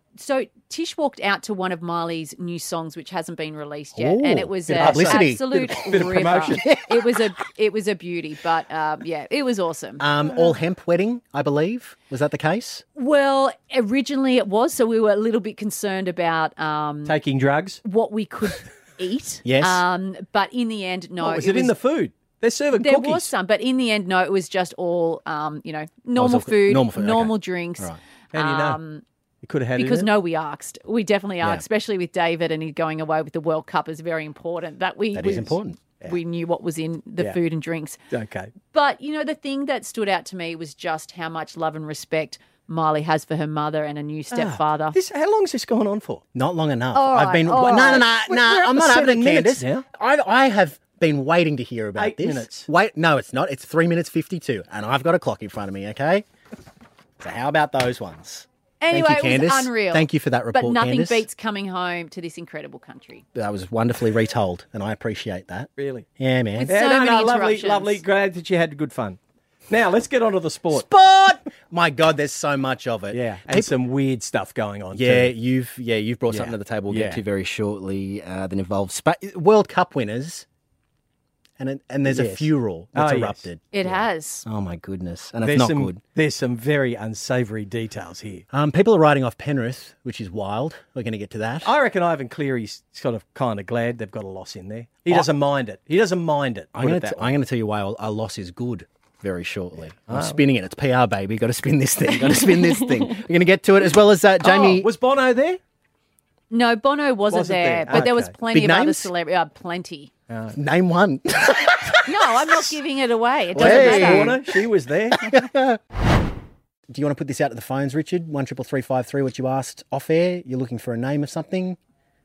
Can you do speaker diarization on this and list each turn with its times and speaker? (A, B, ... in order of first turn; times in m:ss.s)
0:00.2-0:10.0 A
0:04.0-0:06.0 B
0:04.7-0:06.7 C
0:06.6-0:07.0 B
0:10.0-0:12.8 B
0:13.0-0:17.2 A
0:17.0-0:17.8 C
0:17.8-0:21.8 A
0:19.4-0:19.8 B
0:21.2-0:23.3 C
0:22.8-0:29.0 A
0:26.2-0:28.0 B
0:28.3-0:28.8 C
0:29.4-0:30.1 C
0:29.8-0:38.0 A
0:35.1-0:35.8 B
0:38.1-0:38.5 C
0:38.7-0:45.0 A
0:44.3-0:46.2 C
0:46.4-0:56.2 B
0:46.9-0:48.1 A
0:47.8-0:49.8 C
0:52.0-0:52.7 C
0:57.2-1:01.2 B
0:58.8-1:03.2 A
1:03.4-1:06.7 B
1:05.8-1:06.1 C
1:06.6-1:08.0 A
1:06.7-1:10.9 C
1:10.7-1:13.7 B
1:13.1-1:15.3 C
1:14.9-1:20.4 B
1:16.3-1:17.2 C
1:21.6-1:26.0 B
1:22.1-1:23.4 C
1:23.7-1:24.4 A
1:25.4-1:28.4 C
1:28.5-1:31.7 B
1:31.6-1:37.3 C
1:36.8-1:44.9 B
1:40.1-1:40.4 C
1:42.3-1:43.0 A
1:44.4-1:45.6 C
1:46.5-1:50.1 A
1:47.3-1:48.3 C
1:47.9-1:49.1 B
1:50.3-1:50.6 C
1:50.5-1:52.7 B
1:52.1-1:54.4 A
1:53.6-1:54.4 B
1:53.6-1:55.3 C
1:55.2-1:55.8 B
1:56.9-2:01.8 B